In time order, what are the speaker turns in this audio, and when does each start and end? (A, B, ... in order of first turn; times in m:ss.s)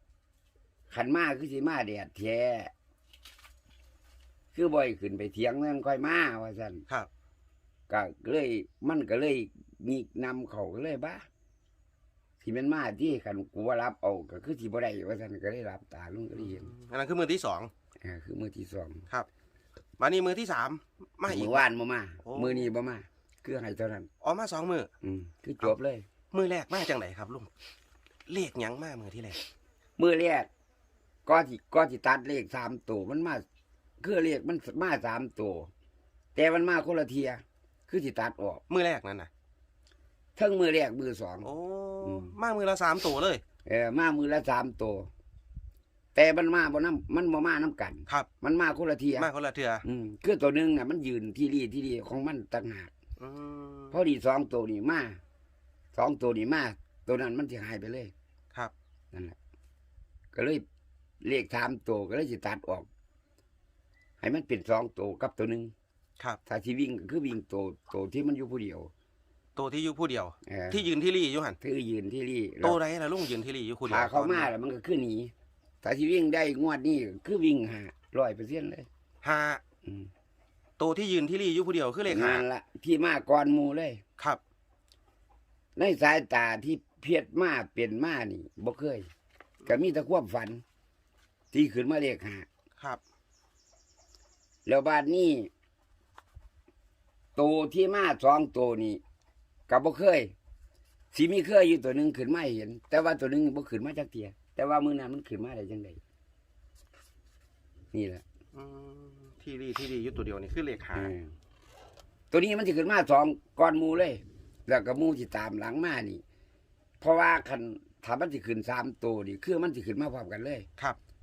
0:00.9-0:02.7 A
0:04.5-0:06.8 A
0:07.9-0:11.2 A
0:12.4-0:16.7 A
0:16.4-0:17.7 B
0:18.0-0:19.0 A
0:20.0-0:21.7 B
0:21.3-0:24.1 A
0:22.2-0:22.7 B
0:24.2-0:24.9 B
0:25.0-0:26.0 A
0:26.3-0:27.5 B
0:28.3-0:29.4 B
0:30.0-0:30.5 A
0:31.2-0:33.4 A
0:34.0-0:35.7 A
0:36.3-0:38.6 A
0:38.7-0:39.3 B
0:40.4-0:41.5 A
0:41.4-0:43.4 B
0:42.0-0:42.4 A
0:43.6-0:45.1 A
0:46.1-0:49.3 A
0:49.2-0:49.8 B
0:49.8-0:52.9 A
0:53.2-0:53.9 B
0:53.9-0:55.2 A
0:55.9-0:58.1 A
1:00.3-1:00.6 A
1:01.2-1:02.9 A
1:04.2-1:05.7 A
1:06.4-1:08.9 A
1:09.6-1:11.6 B
1:10.4-1:10.9 A
1:11.6-1:12.8 A
1:12.6-1:14.5 B
1:13.8-1:18.9 A
1:19.2-1:19.6 B
1:20.8-1:22.4 B
1:22.1-1:24.0 A
1:25.8-1:29.1 A
1:29.6-1:30.6 A
1:31.5-1:32.5 A
1:34.6-1:35.5 A
1:37.4-1:39.0 A
1:39.7-1:40.3 A
1:41.1-1:46.0 A
1:47.9-1:48.2 A
1:48.5-1:51.1 B
1:50.9-1:51.3 A
1:52.3-1:56.2 A
1:57.0-2:00.7 A